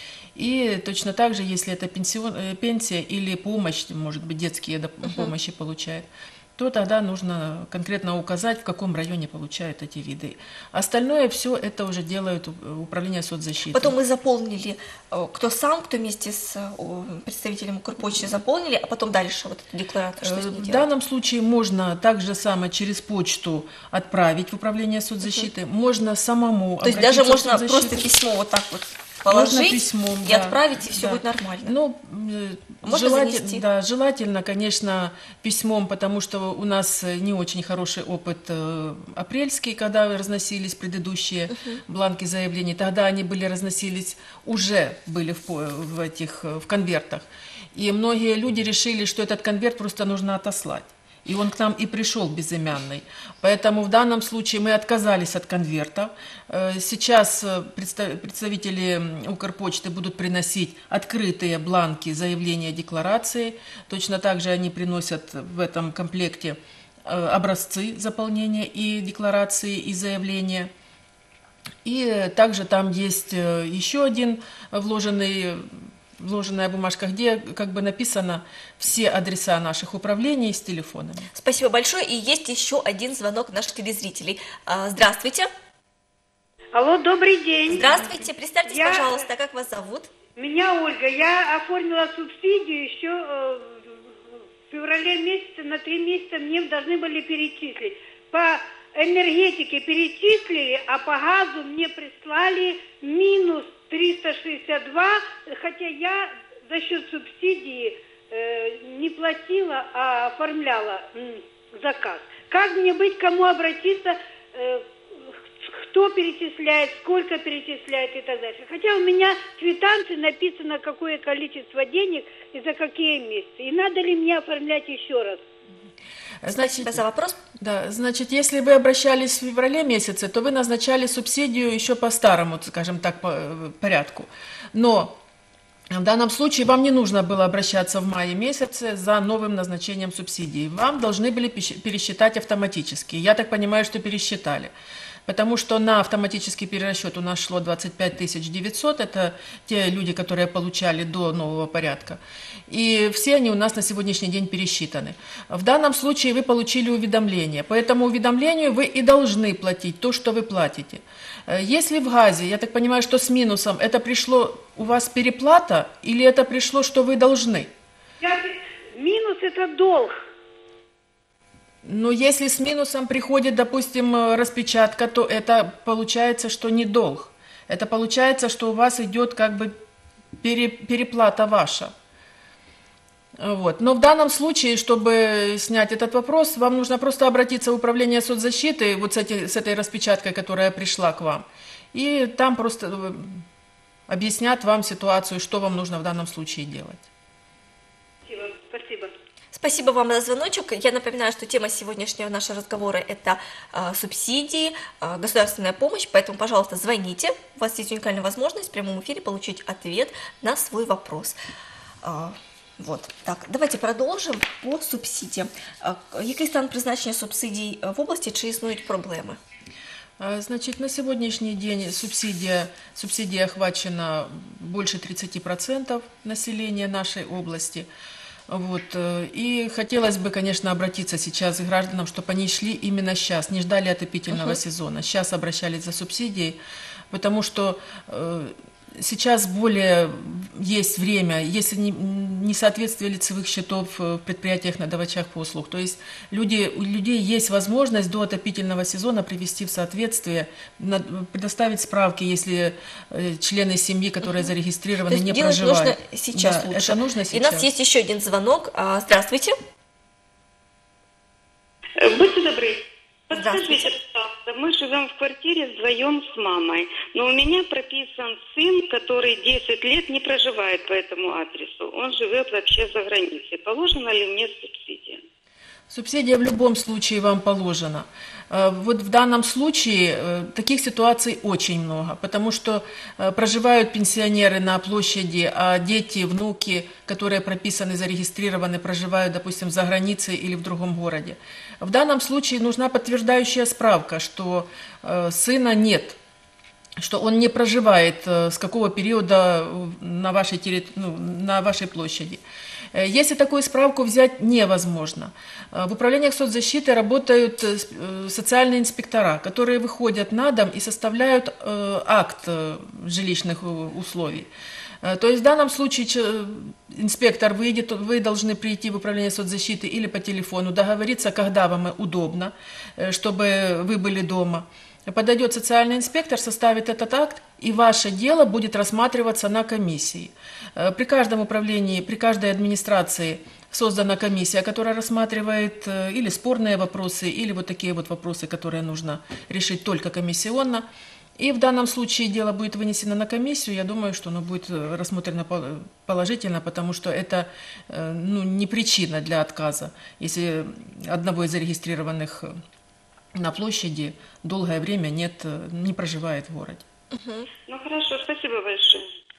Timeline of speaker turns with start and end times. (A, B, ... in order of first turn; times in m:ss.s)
0:00.4-0:13.9 A
0:05.0-0:05.3 B
0:13.7-0:20.9 B
0:20.2-0:28.0 A
0:25.2-0:25.5 B
0:26.8-0:31.8 B
0:29.3-1:10.7 A
0:32.8-0:33.6 B
0:41.5-0:41.8 B
1:11.8-1:21.3 A
1:21.3-1:25.5 B
1:26.7-1:29.2 C
1:27.7-1:30.1 B
1:30.4-1:33.8 C
1:34.7-1:54.8 C
1:55.7-2:05.4 C
2:06.4-2:07.0 A
2:06.6-2:07.4 B
2:07.6-2:15.1 A
2:15.9-2:24.7 A
2:25.2-2:47.7 A
2:48.2-2:50.2 C
2:51.8-2:59.8 A
3:00.4-3:01.9 A
3:03.4-3:13.4 A
3:14.1-3:17.0 A
3:18.2-3:19.1 C
3:19.5-3:31.4 B
3:32.0-3:39.4 B
3:40.2-3:47.9 A
3:48.5-3:56.6 A
3:54.3-3:54.6 B
3:57.1-4:17.7 A
4:14.2-4:14.5 B
4:15.0-4:19.5 B
4:22.0-4:35.2 D
4:23.3-4:23.9 B
4:35.9-4:56.2 A
4:57.0-5:02.4 A
5:02.9-5:14.5 A
5:15.0-5:40.8 A
5:41.4-5:52.6 A
5:53.3-5:56.8 A
5:57.1-5:57.5 B
5:57.7-5:59.1 D